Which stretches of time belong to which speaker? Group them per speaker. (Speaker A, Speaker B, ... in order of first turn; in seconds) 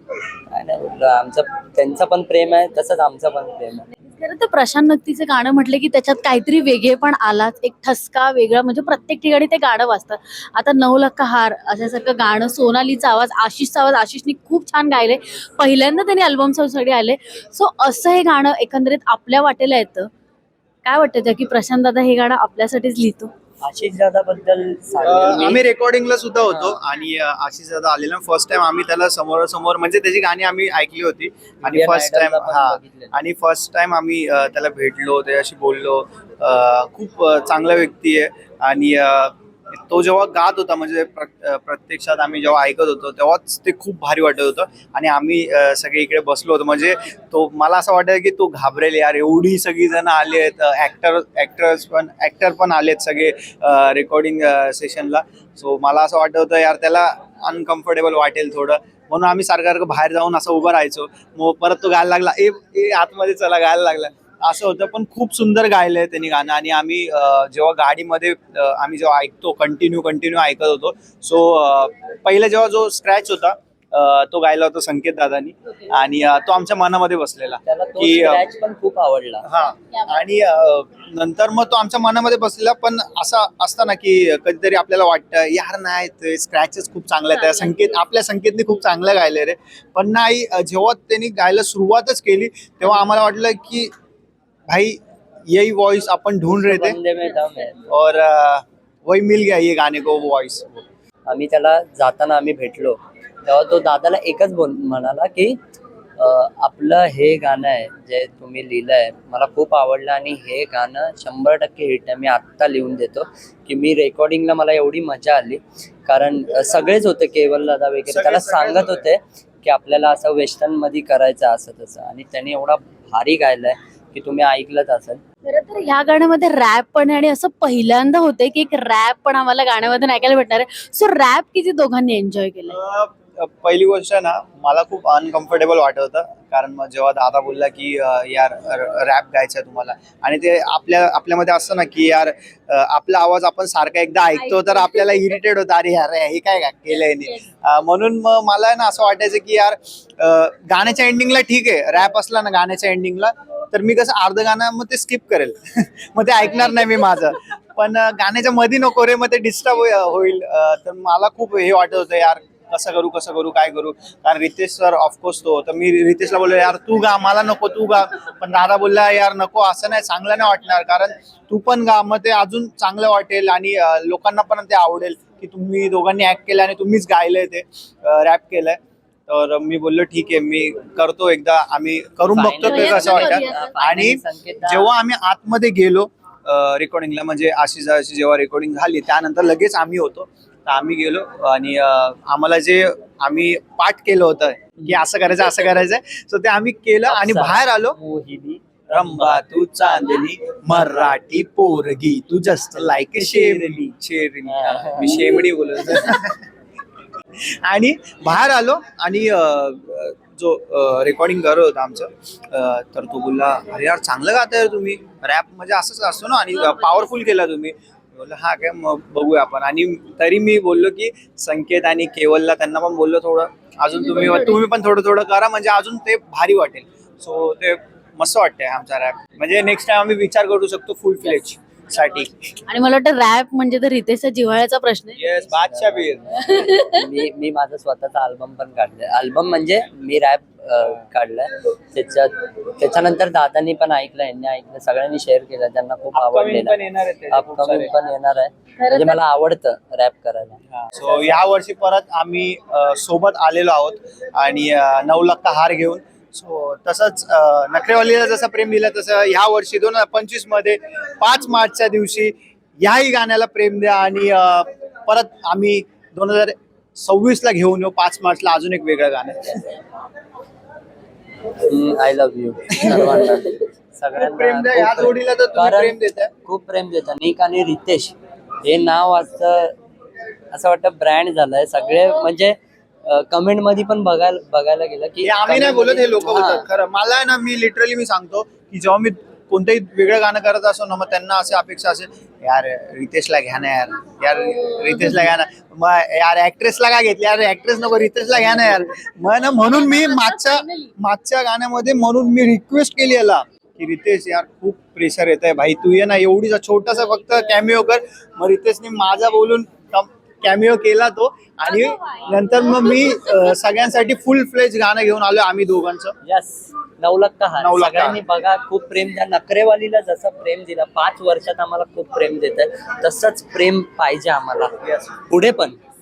Speaker A: 0.5-3.9, 23.6-25.6, 26.5-26.8, 31.6-33.1, 77.6-79.4, 96.5-97.8, 101.2-105.6, 106.2-125.2, 182.3-184.9, 197.1-199.4, 202.8-203.9, 204.4-206.0, 235.4-246.8, 247.3-250.6, 271.6-279.7, 280.5-286.6, 316.2-325.8
Speaker B: 4.0-20.1, 20.8-23.3, 125.4-132.8, 182.7-183.8, 223.9-224.6, 232.7-235.2, 236.3-237.2, 299.9-300.9
Speaker C: 25.0-78.5, 79.4-93.9, 94.7-97.0, 97.9-100.8, 118.1-119.1, 132.7-198.0, 198.9-206.4, 207.6-232.3, 235.2-236.2, 246.1-247.9, 250.7-269.6, 272.7-273.4, 274.1-276.3, 285.2-316.1, 317.6-318.2